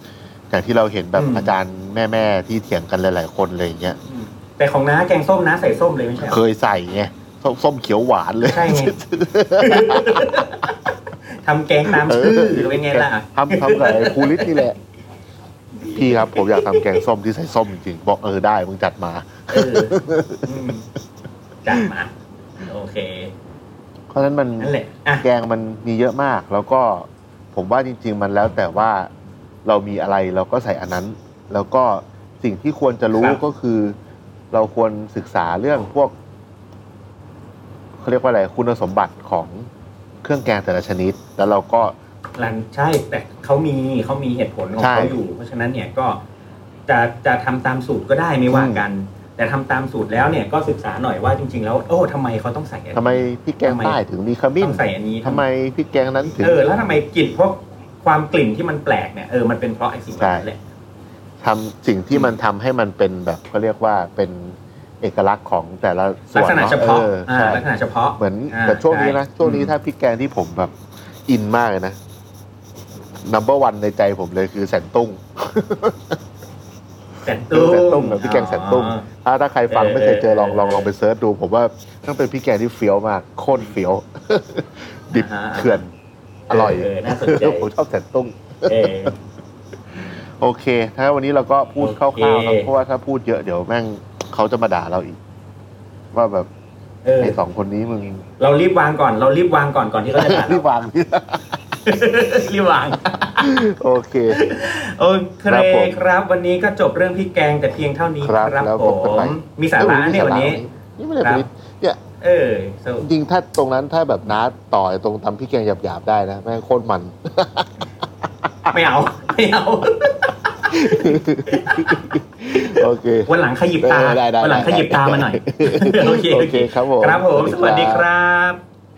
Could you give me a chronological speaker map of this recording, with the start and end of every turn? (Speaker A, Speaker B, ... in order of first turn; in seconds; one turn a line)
Speaker A: 0.5-4.0
Speaker B: 1.1-1.5
Speaker B: 4.1-6.4
Speaker A: 6.2-10.4
Speaker B: 8.4-9.0
Speaker B: 9.6-14.7
Speaker A: 11.9-14.8
Speaker B: 15.8-17.0
Speaker A: 15.9-20.5
Speaker B: 19.5-20.9
Speaker B: 21.6-23.3
Speaker A: 24.1-29.1
Speaker B: 24.6-25.3
Speaker A: 29.6-34.0
Speaker B: 33.1-33.4
Speaker A: 34.5-36.1
Speaker A: 38.0-39.7
Speaker A: 40.2-42.0
Speaker B: 42.4-46.2
Speaker A: 44.8-45.2
Speaker B: 46.9-54.0
Speaker A: 48.5-48.8
Speaker A: 52.9-56.6
Speaker B: 54.6-55.4
Speaker B: 56.4-60.6
Speaker A: 60.1-60.5
Speaker A: 61.4-67.6
Speaker B: 66.3-69.7
Speaker A: 68.2-70.8
Speaker A: 71.3-72.0
Speaker A: 73.2-76.2
Speaker B: 77.2-79.1
Speaker A: 77.5-85.8
Speaker B: 79.7-80.9
Speaker B: 85.1-85.9
Speaker B: 86.5-87.7
Speaker A: 86.5-89.1
Speaker B: 88.7-89.2
Speaker A: 90.4-95.2
Speaker B: 91.8-92.7
Speaker A: 96.1-96.5
Speaker B: 97.0-97.4
Speaker A: 97.2-98.2
Speaker B: 98.4-100.6
Speaker A: 100.2-101.5
Speaker B: 101.8-103.7
Speaker A: 103.4-104.4
Speaker B: 104.3-110.6
Speaker A: 105.5-106.0
Speaker A: 108.2-112.0
Speaker B: 112.2-113.1
Speaker A: 113.0-117.7
Speaker B: 118.7-122.1
Speaker A: 120.7-128.1
Speaker B: 123.3-128.6